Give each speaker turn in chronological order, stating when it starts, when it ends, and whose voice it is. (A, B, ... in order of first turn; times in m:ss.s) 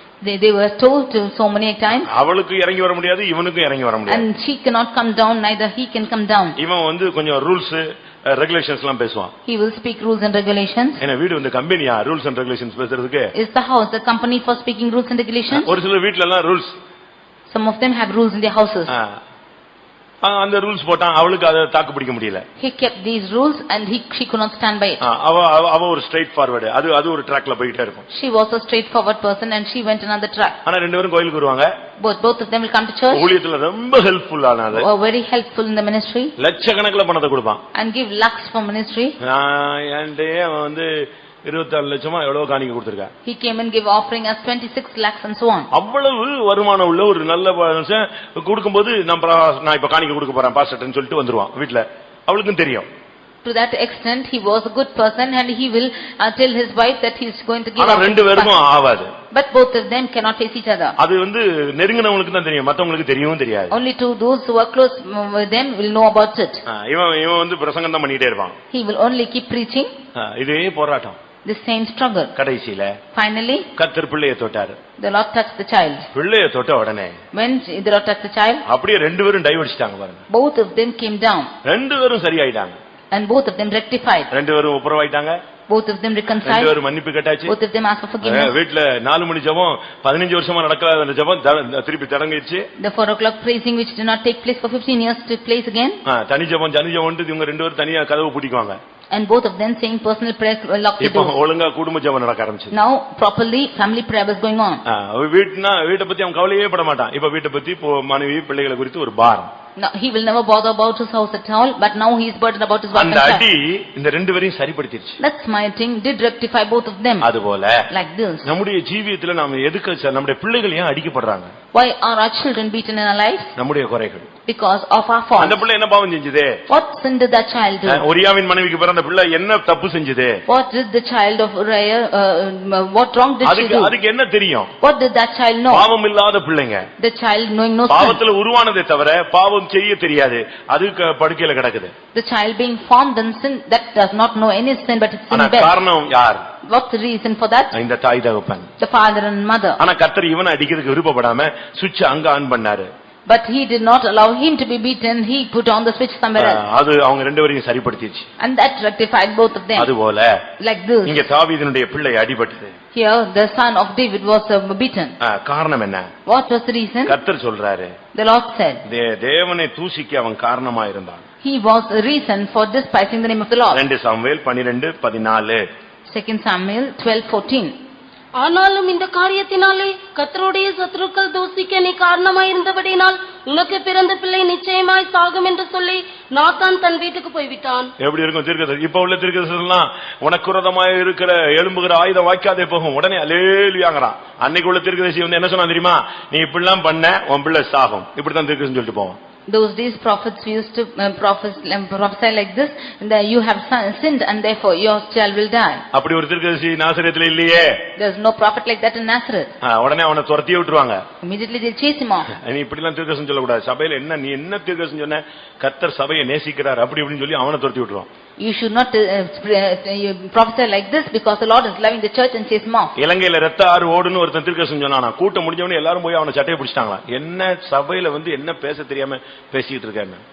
0:00.2-0:02.1 A
0:02.0-0:04.3 B
0:04.1-0:06.6 A
0:06.6-0:09.3 B
0:09.4-0:11.0 A
0:11.0-0:13.3 B
0:13.3-0:15.7 A
0:15.5-0:16.8 B
0:17.5-0:18.9 A
0:18.9-0:19.2 B
0:20.2-0:22.5 B
0:22.6-0:25.0 A
0:25.0-0:28.0 B
0:28.1-0:30.6 A
0:30.6-0:31.7 B
0:32.0-0:33.3 A
0:33.1-0:34.9 B
0:34.7-0:36.3 A
0:36.4-0:37.6 B
0:37.7-0:39.2 A
0:39.2-0:43.1 B
0:43.2-0:45.7 A
0:45.7-0:52.9 B
0:53.4-0:58.6 A
0:57.8-0:59.1 B
0:59.3-1:01.0 A
1:01.0-1:03.8 B
1:03.7-1:06.6 A
1:06.7-1:08.6 B
1:08.7-1:09.9 A
1:10.2-1:11.2 B
1:11.4-1:12.3 A
1:12.4-1:13.0 B
1:13.1-1:13.7 A
1:13.8-1:14.8 B
1:15.0-1:16.1 A
1:16.1-1:17.2 B
1:17.3-1:18.6 A
1:18.7-1:20.2 B
1:20.3-1:21.5 A
1:21.6-1:22.8 B
1:23.1-1:24.3 A
1:24.3-1:25.4 B
1:25.7-1:26.8 A
1:26.4-1:27.5 B
1:27.5-1:28.5 A
1:28.2-1:32.7 B
1:32.8-1:36.0 A
1:36.0-1:38.8 B
1:39.1-1:41.4 A
1:41.0-1:42.7 B
1:42.7-1:44.8 A
1:44.9-1:49.5 B
1:49.8-1:53.5 A
1:52.9-1:55.2 B
1:55.2-1:57.3 A
1:57.2-1:57.9 B
1:57.9-1:58.5 A
1:58.4-2:01.5 B
2:01.7-2:03.5 A
2:03.6-2:04.3 B
2:04.4-2:05.6 A
2:05.4-2:06.6 B
2:06.7-2:08.0 A
2:07.9-2:10.4 B
2:10.5-2:13.9 A
2:13.4-2:14.7 B
2:14.8-2:15.9 A
2:15.7-2:16.9 B
2:17.0-2:18.2 A
2:17.9-2:21.9 B
2:22.1-2:25.8 A
2:25.3-2:26.4 B
2:26.6-2:27.7 A
2:27.7-2:28.7 B
2:28.8-2:29.8 A
2:29.8-2:32.9 B
2:33.3-2:36.6 A
2:36.4-2:38.3 B
2:38.4-2:39.9 A
2:39.8-2:40.4 B
2:40.6-2:41.2 A
2:41.0-2:42.8 B
2:42.9-2:45.2 A
2:45.2-2:46.1 B
2:46.2-2:47.2 A
2:47.1-2:48.0 B
2:48.1-2:48.8 A
2:48.9-2:51.2 B
2:51.4-2:53.8 A
2:53.7-2:55.6 B
2:56.1-2:57.7 A
2:58.4-3:07.9 C
3:08.0-3:19.2 B
3:19.5-3:25.8 A
3:25.9-3:27.9 B
3:28.0-3:29.5 A
3:29.6-3:31.0 B
3:31.2-3:32.3 A
3:32.3-3:38.1 B
3:38.4-3:43.0 A
3:43.0-3:50.2 B